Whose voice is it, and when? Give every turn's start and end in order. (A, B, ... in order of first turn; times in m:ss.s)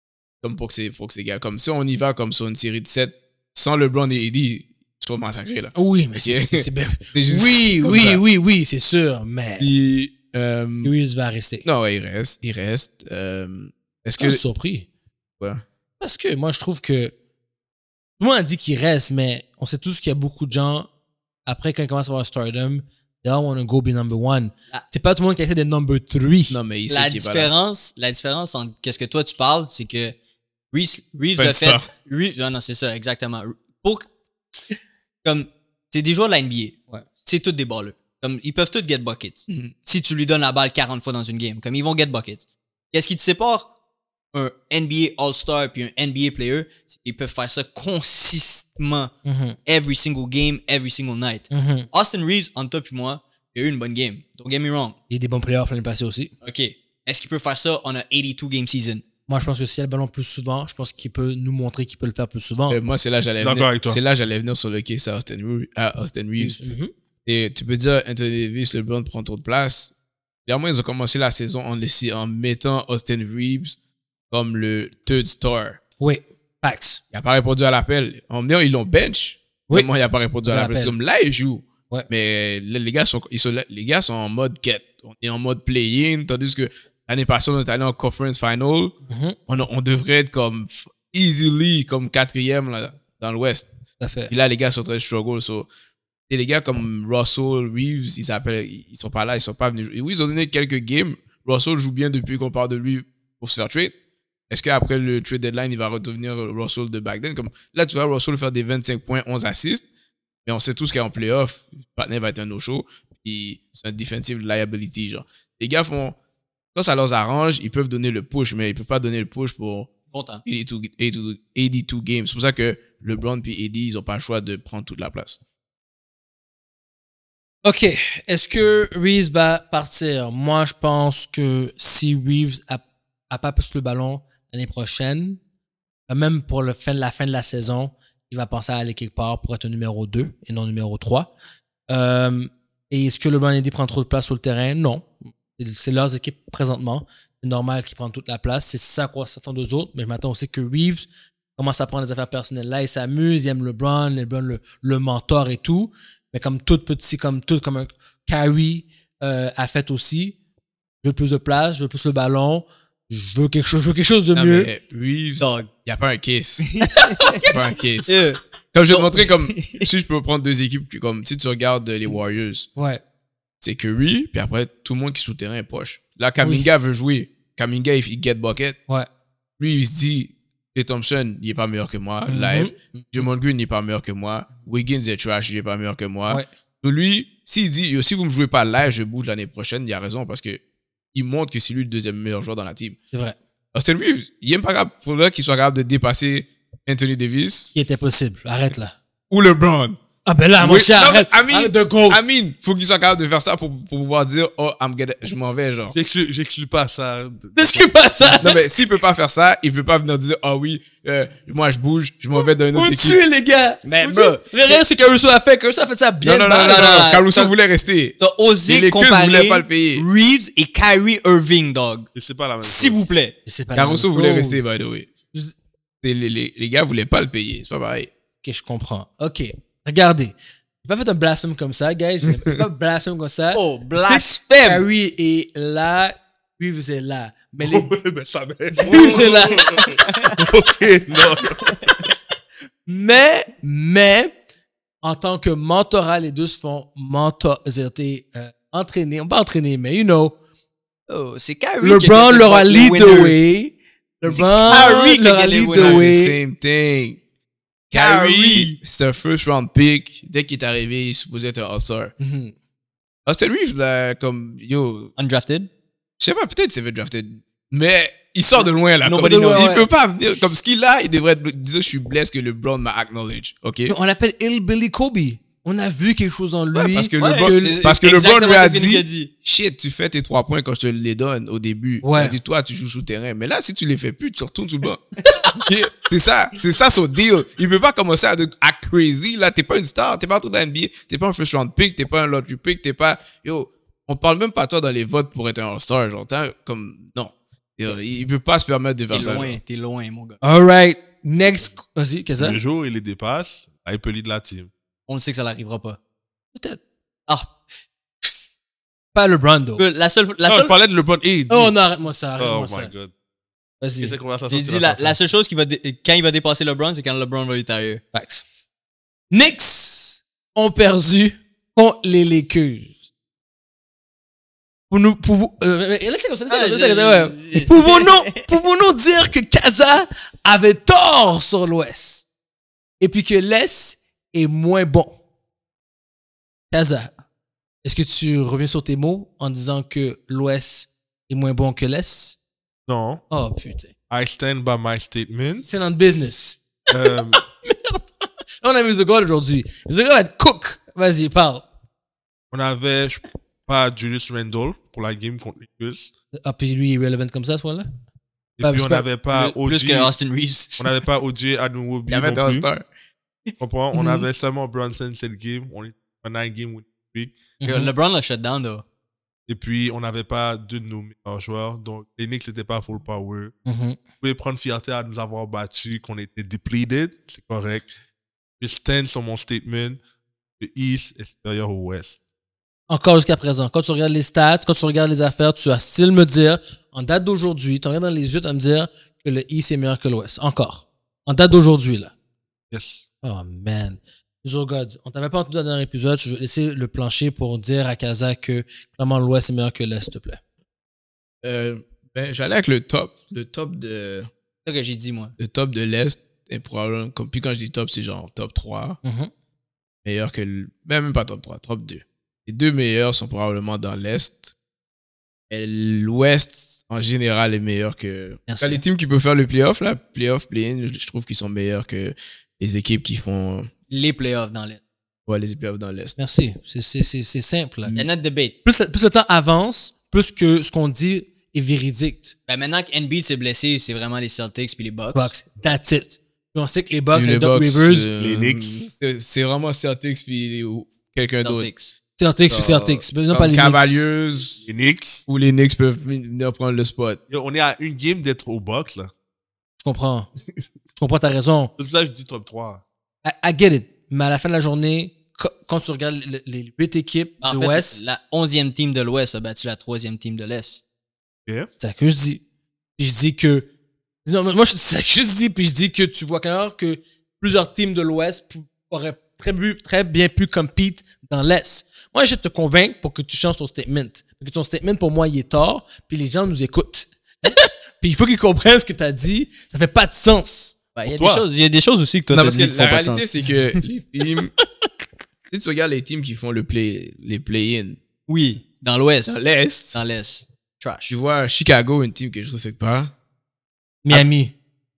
0:00.4-0:08.2 A
0:05.7-0:09.7 B
0:09.6-0:10.9 A
0:10.8-0:11.6 B
0:11.6-0:14.4 A
0:14.2-0:14.9 B
0:16.0-0:17.1 B
0:18.2-0:20.9 B
0:21.4-0:26.6 B
0:26.5-0:27.5 A
0:26.9-0:30.2 C
0:30.7-0:34.1 C
0:31.4-0:31.9 A
0:35.2-0:43.7 C
0:44.3-0:49.1 C
0:49.2-0:49.6 B
0:49.6-0:55.0 C
0:51.5-0:51.9 B
0:55.1-0:56.3 B
0:56.4-0:59.0 C
0:59.3-1:02.8 B
1:02.7-1:06.6 A
1:03.4-1:04.0 D
1:06.4-1:06.9 B
1:07.2-1:09.9 A
1:10.4-1:13.8 A
1:14.3-1:15.8 A
1:16.0-1:17.0 B
1:17.1-1:29.0 A
1:20.4-1:20.9 B
1:29.1-1:29.4 B
1:29.5-1:33.7 A
1:34.0-1:34.3 B
1:34.3-1:35.7 A
1:36.3-1:43.9 A
1:44.5-1:49.8 A
1:50.4-1:56.2 A
1:56.7-1:59.9 A
2:00.1-2:00.4 C
2:00.4-2:05.4 A
2:07.6-2:15.4 B
2:16.1-2:21.3 B
2:21.9-2:40.4 B
2:41.0-2:44.7 B
2:44.3-2:46.7 A
2:45.4-2:45.7 C
2:46.6-2:47.4 C
2:46.8-2:47.6 B
2:47.4-2:48.2 A
2:48.1-2:49.9 C
2:48.7-2:52.7 A
2:52.8-2:53.0 B
2:53.6-2:58.8 A
2:56.4-2:56.7 B
2:59.6-3:10.6 A
3:02.3-3:03.3 B
3:11.1-3:13.0 A
3:13.1-3:13.4 B
3:13.7-3:17.7 A
3:17.7-3:18.9 B
3:19.3-3:20.0 A
3:20.2-3:22.3 B
3:20.6-3:26.0 A
3:25.9-3:28.5 D
3:27.5-3:28.6 B
3:28.4-3:33.2 A
3:32.4-3:37.0 B
3:33.8-3:34.8 C
3:36.2-3:40.0 A
3:36.6-3:37.5 C
3:38.2-3:42.1 C
3:42.1-3:43.1 D
3:42.6-3:43.3 C
3:43.4-3:44.6 B
3:43.7-3:45.1 A
3:46.0-3:48.1 A
3:48.4-3:57.9 B
3:53.5-3:54.8 C
3:57.6-4:02.1 D
3:58.8-3:59.8 B
3:58.9-3:59.2 C
4:02.8-4:04.3 B
4:05.0-4:10.4 B
4:11.1-4:13.4 C
4:11.8-4:16.4 B
4:14.2-4:16.1 C
4:14.6-4:14.9 A
4:15.7-4:17.2 A
4:17.9-4:22.1 A
4:17.9-4:18.8 C
4:22.2-4:22.5 B
4:23.2-4:25.1 A
4:25.2-4:25.7 C
4:26.2-4:33.9 A
4:28.6-4:29.7 C
4:29.2-4:29.9 B
4:33.9-4:37.8 B
4:36.7-4:59.6 A
4:37.2-4:39.3 C
4:42.0-4:42.4 B
4:59.1-5:00.4 C
5:00.4-5:02.6 B
5:02.4-5:04.7 D
5:05.1-5:06.0 C
5:06.5-5:06.8 B
5:07.3-5:07.5 C
5:09.1-5:09.8 B
5:09.8-5:10.8 C
5:10.4-5:11.7 D
5:11.5-5:12.9 B
5:12.4-5:13.1 D
5:13.8-5:14.2 B
5:14.0-5:15.2 D
5:14.5-5:18.0 C
5:18.1-5:18.4 B
5:19.3-5:22.9 B
5:24.9-5:32.2 B
5:26.5-5:28.5 C
5:33.0-5:35.2 B
5:36.7-5:37.1 B
5:37.8-5:42.4 B
5:42.9-5:43.2 D
5:43.3-5:43.9 B
5:44.1-5:45.7 D
5:45.6-5:48.0 B
5:46.9-5:47.4 D
5:48.6-5:51.6 B
5:52.5-5:56.1 D
5:56.3-5:57.9 B
5:58.6-6:00.1 D
5:58.6-5:59.0 B
5:59.3-6:00.9 C
6:00.8-6:02.7 D
6:02.1-6:02.8 A
6:03.6-6:07.4 D
6:03.9-6:04.2 B
6:07.6-6:07.9 B
6:07.6-6:08.8 C
6:09.5-6:13.5 D
6:13.6-6:14.0 B
6:14.2-6:17.9 D
6:18.6-6:20.0 D
6:20.6-6:22.2 D
6:22.9-6:32.1 B
6:32.7-6:33.0 D
6:33.2-6:40.4 B
6:41.4-6:44.3 A
6:44.6-6:45.3 C
6:45.4-6:49.0 A
6:49.0-6:49.3 B
6:50.0-6:54.5 A
6:55.5-7:03.7 A
6:58.5-6:58.8 B
7:03.9-7:04.8 C
7:05.3-7:06.2 A
7:06.2-7:07.9 B
7:07.8-7:08.1 A
7:07.9-7:08.5 C
7:08.6-7:12.3 B
7:12.5-7:15.3 C
7:15.1-7:18.1 B
7:17.1-7:21.7 A
7:18.2-7:18.9 D
7:21.4-7:21.9 C
7:22.2-7:24.0 B
7:22.4-7:24.6 A
7:24.6-7:25.2 D
7:25.2-7:27.2 A
7:27.3-7:29.1 D
7:29.8-7:30.3 B
7:31.0-7:31.7 B
7:31.8-7:32.8 D
7:33.2-7:38.0 B
7:37.4-7:40.8 C
7:41.8-7:42.4 B
7:43.0-7:43.7 B
7:44.2-8:00.8 B
8:01.0-8:03.3 C
8:01.0-8:01.4 D
8:02.3-8:04.5 A
8:05.5-8:08.0 A
8:08.3-8:09.4 C
8:09.2-8:10.0 A
8:09.9-8:11.1 C
8:11.1-8:13.1 A
8:14.0-8:14.5 B